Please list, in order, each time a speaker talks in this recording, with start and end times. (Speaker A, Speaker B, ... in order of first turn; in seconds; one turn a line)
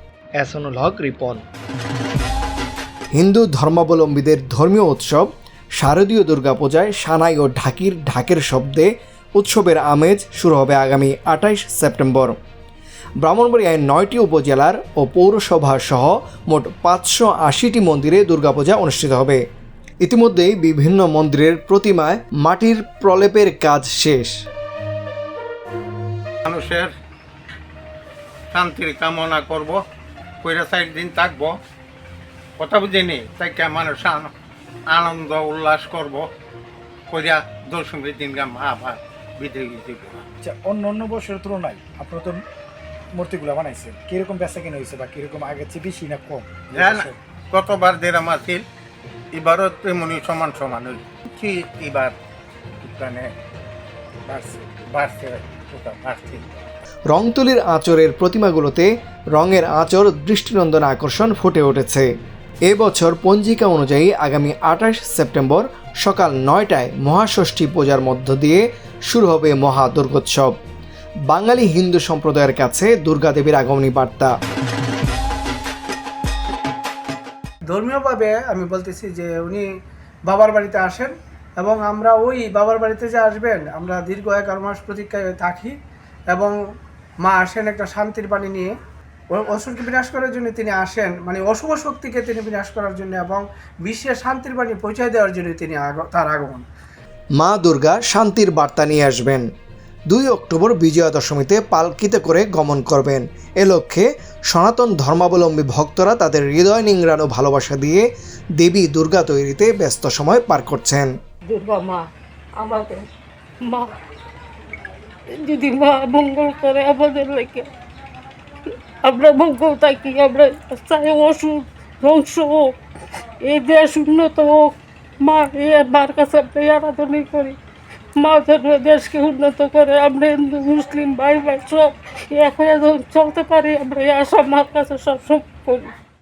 Speaker A: 0.4-1.4
Speaker A: 3.1-5.3
Speaker A: 5.8-12.3
Speaker A: 13.2-19.4
Speaker A: 20.0-24.3
Speaker B: 26.4-26.9
Speaker B: 28.5-29.8
Speaker B: 30.4-31.5
Speaker B: 32.6-34.3
Speaker B: 34.9-36.2
Speaker B: 37.1-40.2
Speaker C: 40.4-42.4
Speaker C: 43.1-47.1
Speaker B: 46.7-48.6
Speaker B: 49.4-52.1
Speaker B: 53.0-53.3
Speaker C: 54.3-54.8
Speaker B: 54.9-56.4
Speaker A: 57.1-62.1
Speaker A: 62.7-70.5
Speaker A: 71.3-74.3
Speaker D: 77.7-79.6
Speaker D: 80.3-85.7
Speaker D: 86.3-86.5
Speaker D: 87.2-88.7
Speaker D: 89.3-96.7
Speaker A: 97.4-99.4
Speaker A: 100.1-108.0
Speaker A: 108.6-111.1
Speaker E: 111.5-112.0
Speaker E: 112.6-113.0
Speaker E: 113.6-113.9
Speaker E: 115.4-117.7
Speaker E: 119.0-122.7
Speaker E: 123.5-124.7
Speaker E: 125.2-127.6
Speaker E: 128.2-135.9